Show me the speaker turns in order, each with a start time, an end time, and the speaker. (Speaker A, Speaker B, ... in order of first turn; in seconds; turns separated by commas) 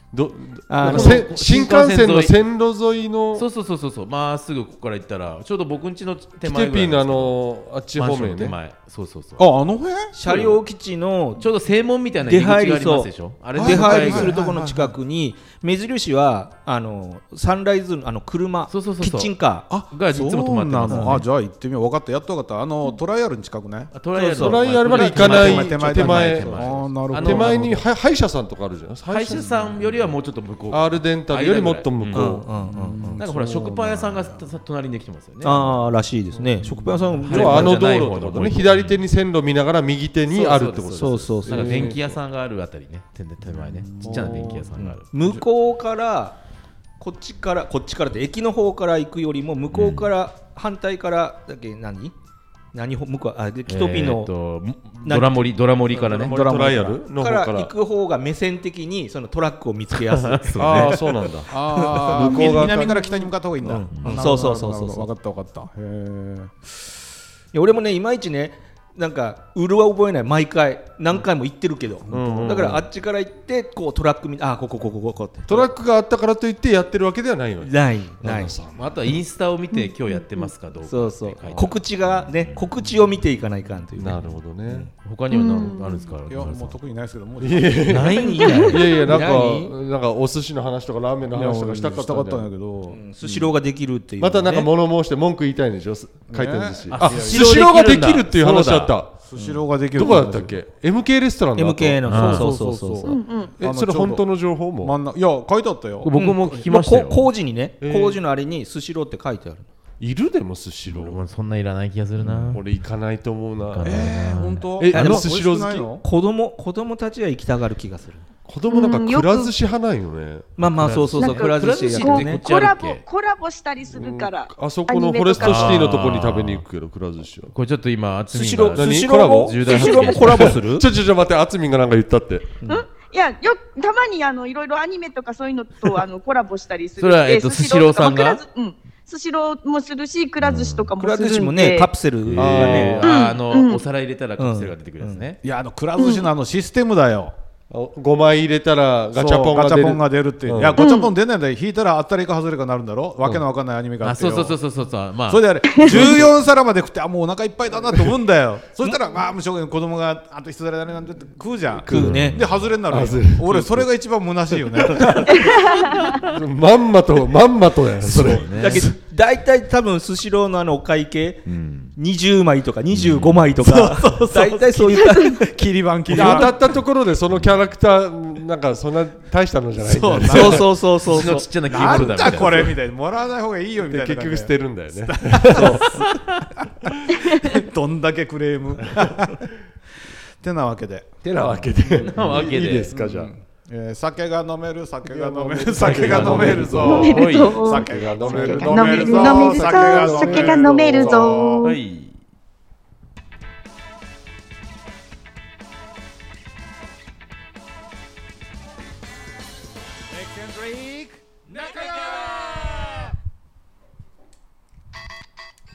Speaker A: 0.1-3.5, Speaker B: 0.7-1.3, Speaker C: 0.8-2.4, Speaker C: 3.3-7.4, Speaker A: 6.4-8.6, Speaker C: 8.0-9.4, Speaker D: 9.4-10.1, Speaker B: 10.1-11.5, Speaker C: 10.3-10.6, Speaker C: 11.4-14.4, Speaker B: 12.2-19.7, Speaker D: 13.6-14.9, Speaker C: 18.7-21.3, Speaker D: 19.7-23.9, Speaker B: 20.9-21.2, Speaker C: 23.9-27.7, Speaker B: 24.1-25.5, Speaker A: 24.4-29.9, Speaker D: 24.9-27.8, Speaker C: 29.1-32.4, Speaker A: 30.7-32.5, Speaker B: 32.1-33.2, Speaker D: 32.6-34.5, Speaker C: 33.2-35.7, Speaker B: 35.4-37.8, Speaker D: 36.6-37.2, Speaker C: 37.2-39.0, Speaker A: 37.3-42.2, Speaker C: 40.3-45.0, Speaker B: 41.0-41.9, Speaker D: 43.5-45.4, Speaker B: 44.0-46.4, Speaker B: 47.0-52.1, Speaker C: 49.7-50.1, Speaker B: 52.7-54.3, Speaker C: 53.7-56.4, Speaker B: 55.0-55.5, Speaker A: 55.9-57.7, Speaker D: 56.2-57.0, Speaker B: 57.2-61.1, Speaker C: 60.1-61.0, Speaker A: 60.6-63.0, Speaker D: 61.5-66.7, Speaker B: 61.8-62.9, Speaker B: 63.7-65.1, Speaker C: 63.9-64.3, Speaker B: 67.5-75.7, Speaker D: 72.1-72.8, Speaker A: 72.1-72.9, Speaker A: 75.5-78.9, Speaker B: 77.6-78.6, Speaker C: 78.8-82.6, Speaker E: 79.8-80.5, Speaker B: 80.9-84.9, Speaker A: 84.0-84.9, Speaker C: 85.0-86.8, Speaker E: 85.3-86.1, Speaker D: 86.3-88.1, Speaker A: 87.4-92.5, Speaker C: 87.9-88.9, Speaker B: 88.1-89.7, Speaker E: 88.3-88.9, Speaker D: 91.3-93.5, Speaker B: 92.9-94.7, Speaker A: 94.2-99.1, Speaker D: 96.3-97.6, Speaker C: 96.9-99.0, Speaker D: 99.2-100.6, Speaker B: 99.3-99.6, Speaker A: 99.9-102.3, Speaker B: 101.6-103.2, Speaker C: 102.1-102.5, Speaker D: 102.1-106.1, Speaker E: 103.0-103.6, Speaker A: 103.6-105.0, Speaker C: 106.0-107.3, Speaker B: 106.1-109.7, Speaker A: 107.8-108.2, Speaker A: 110.0-111.2, Speaker C: 110.9-112.7, Speaker A: 112.5-114.3, Speaker C: 113.7-114.7, Speaker D: 113.8-116.0, Speaker A: 114.8-115.9, Speaker B: 114.9-115.3, Speaker B: 116.0-118.2, Speaker A: 118.5-120.5, Speaker E: 118.7-119.5, Speaker B: 120.6-122.5, Speaker C: 120.6-123.0, Speaker E: 121.2-126.0, Speaker A: 123.9-127.5, Speaker C: 125.4-126.7, Speaker C: 127.5-130.6, Speaker B: 128.3-130.9, Speaker A: 128.8-132.5, Speaker E: 132.7-141.9, Speaker C: 137.0-138.4, Speaker C: 140.4-140.9, Speaker B: 141.0-143.1, Speaker C: 142.2-145.4, Speaker A: 142.3-143.2, Speaker E: 143.0-143.8, Speaker B: 144.4-145.3, Speaker D: 145.4-147.3, Speaker E: 146.0-146.3, Speaker A: 147.7-150.9, Speaker D: 149.1-154.6, Speaker E: 150.8-151.1, Speaker C: 154.0-156.3, Speaker D: 155.3-165.6, Speaker E: 155.8-156.1, Speaker B: 161.9-162.4, Speaker C: 161.9-162.7, Speaker A: 162.8-163.9, Speaker E: 165.3-166.2, Speaker A: 166.1-168.8, Speaker C: 168.1-168.9, Speaker B: 168.1-175.5, Speaker C: 171.5-171.9, Speaker C: 172.9-173.5, Speaker D: 173.6-176.6, Speaker A: 176.1-180.7, Speaker B: 176.1-176.4, Speaker D: 179.8-180.7, Speaker B: 179.9-182.1, Speaker C: 180.4-182.8, Speaker D: 181.7-189.5, Speaker A: 182.2-182.7, Speaker A: 183.8-186.1, Speaker B: 185.5-185.8, Speaker D: 190.4-201.7, Speaker A: 191.2-193.3, Speaker C: 192.0-192.9, Speaker A: 195.1-201.5, Speaker C: 195.8-198.7, Speaker E: 196.8-201.8, Speaker C: 201.6-202.2, Speaker D: 210.6-211.0